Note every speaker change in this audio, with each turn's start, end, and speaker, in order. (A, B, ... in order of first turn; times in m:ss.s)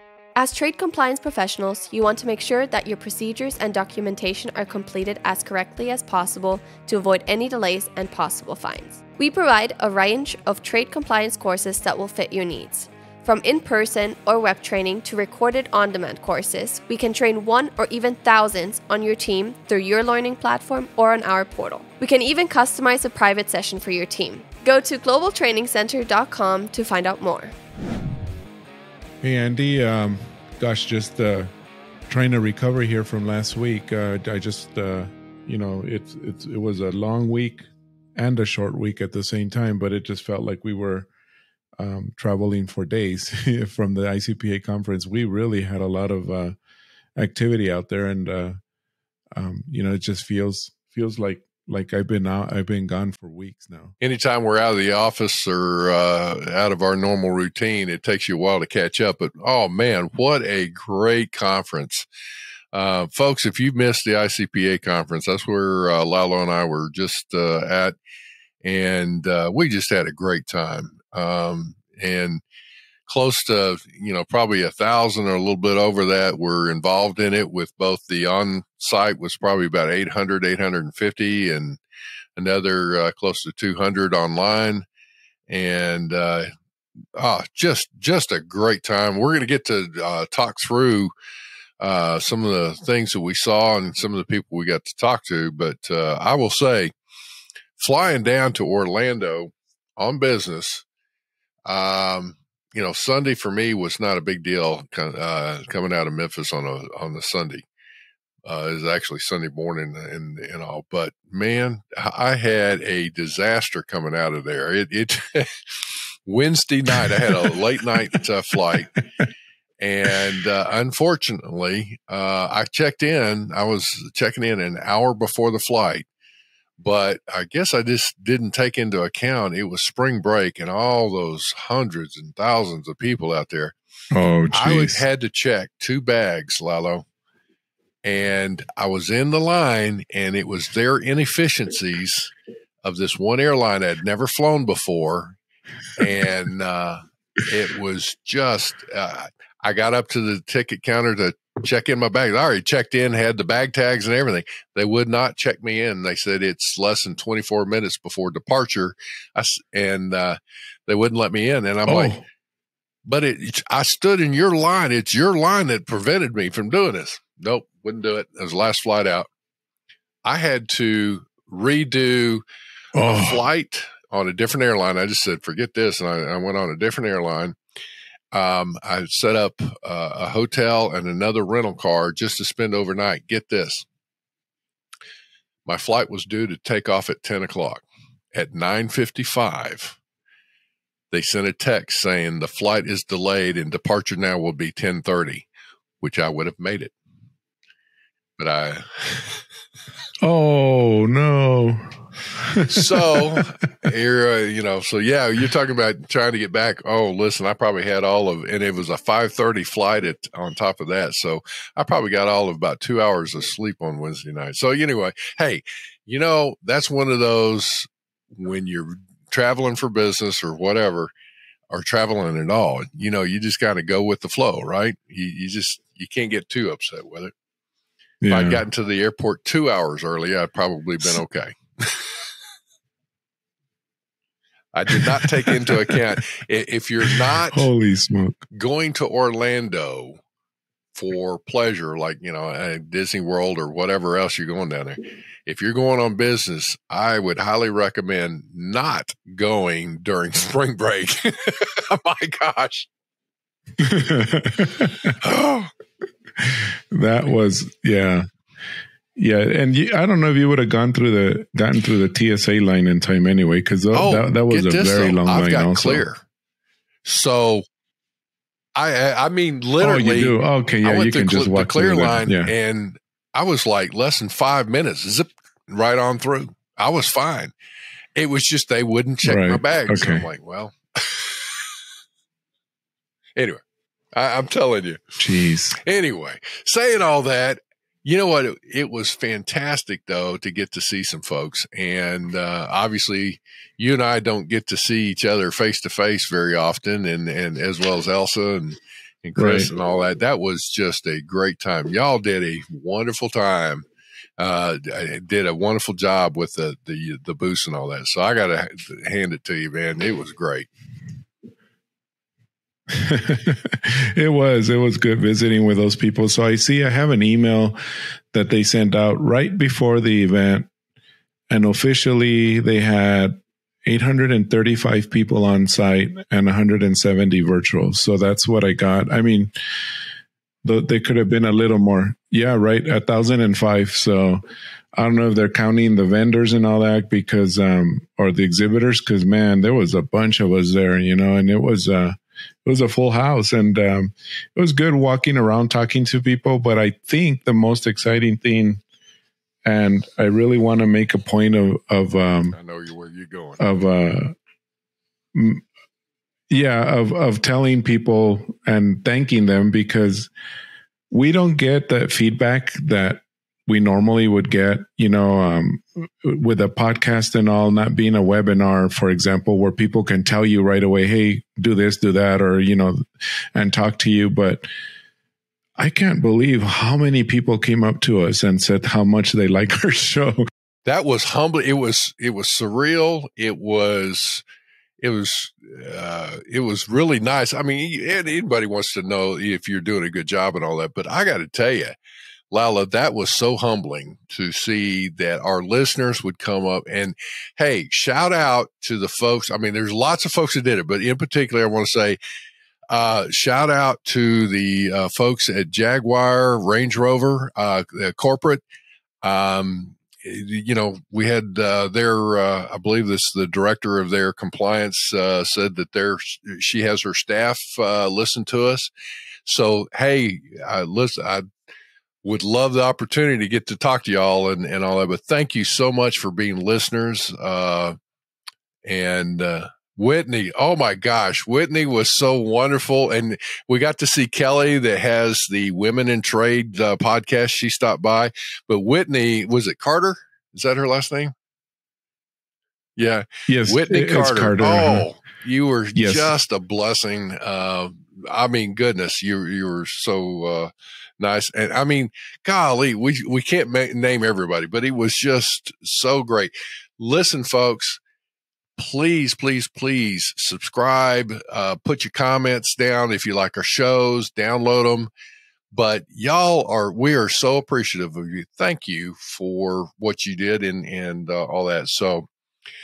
0:00.4-0:27.5 A
0:29.2-0:31.5 B
0:32.1-0:41.1 B
0:41.8-0:46.6 B
0:47.2-0:48.6 B
0:49.3-0:54.0 B
0:54.0-1:02.1 C
1:02.7-1:08.0 C
1:08.6-1:12.4 C
1:13.1-1:21.8 C
1:22.4-1:24.8 C
1:25.5-1:26.5 C
1:27.2-1:31.1 C
1:31.8-1:36.9 C
1:37.8-1:40.8 C
1:41.7-1:47.6 C
1:48.5-1:55.5 C
1:56.3-1:58.9 C
1:57.0-1:57.5 B
1:59.8-2:06.1 C
2:06.8-2:13.7 C
2:14.1-2:15.0 B
2:14.5-2:17.0 C
2:18.0-2:22.3 C
2:22.8-2:25.4 C
2:26.0-2:42.2 C
2:41.9-2:42.2 B
2:43.1-2:49.3 C
2:50.2-2:52.4 C
2:53.0-2:53.5 B
2:53.0-2:57.6 C
2:58.3-3:03.8 C
3:05.7-3:10.0 C
3:11.1-3:15.5 C
3:16.0-3:16.9 C
3:18.4-3:19.4 C
3:20.2-3:23.4 B
3:22.7-3:41.1 C
3:41.7-3:47.3 C
3:48.2-3:48.6 B
3:48.3-3:51.6 C
3:54.7-3:57.7 C
3:54.9-3:56.0 B
3:57.1-3:58.4 B
3:58.5-4:00.2 C
4:01.0-4:12.9 C
4:13.8-4:15.2 B
4:15.2-4:15.7 C
4:16.4-4:18.3 B
4:19.2-4:26.0 B
4:23.9-4:26.2 C
4:27.0-4:27.6 C
4:28.8-4:37.5 C
4:29.8-4:32.5 B
4:38.2-4:41.3 C
4:39.2-4:40.3 B
4:43.4-4:43.6 C
4:44.1-4:45.0 C
4:45.2-4:45.8 B
4:45.8-5:03.8 C
4:59.4-4:59.7 B
5:04.4-5:10.7 C
5:12.9-5:17.8 B
5:18.3-5:20.7 B
5:21.5-5:29.5 B
5:30.6-5:34.4 B
5:35.0-5:48.8 B
5:49.6-5:52.6 B
5:52.5-5:53.6 C
5:53.6-5:54.3 B
5:55.4-5:55.6 B
5:56.5-6:00.3 B
6:01.1-6:13.0 B
6:13.6-6:14.7 B
6:15.8-6:20.4 B
6:20.9-6:24.4 C
6:25.0-6:32.0 C
6:32.5-6:42.2 C
6:42.9-6:48.6 C
6:49.2-6:58.9 C
6:59.5-7:01.5 C
7:02.2-7:08.0 C
7:08.8-7:21.3 C
7:23.0-7:38.0 C
7:23.5-7:25.1 B
7:26.0-7:26.4 B
7:38.8-7:45.1 C
7:45.7-7:52.3 C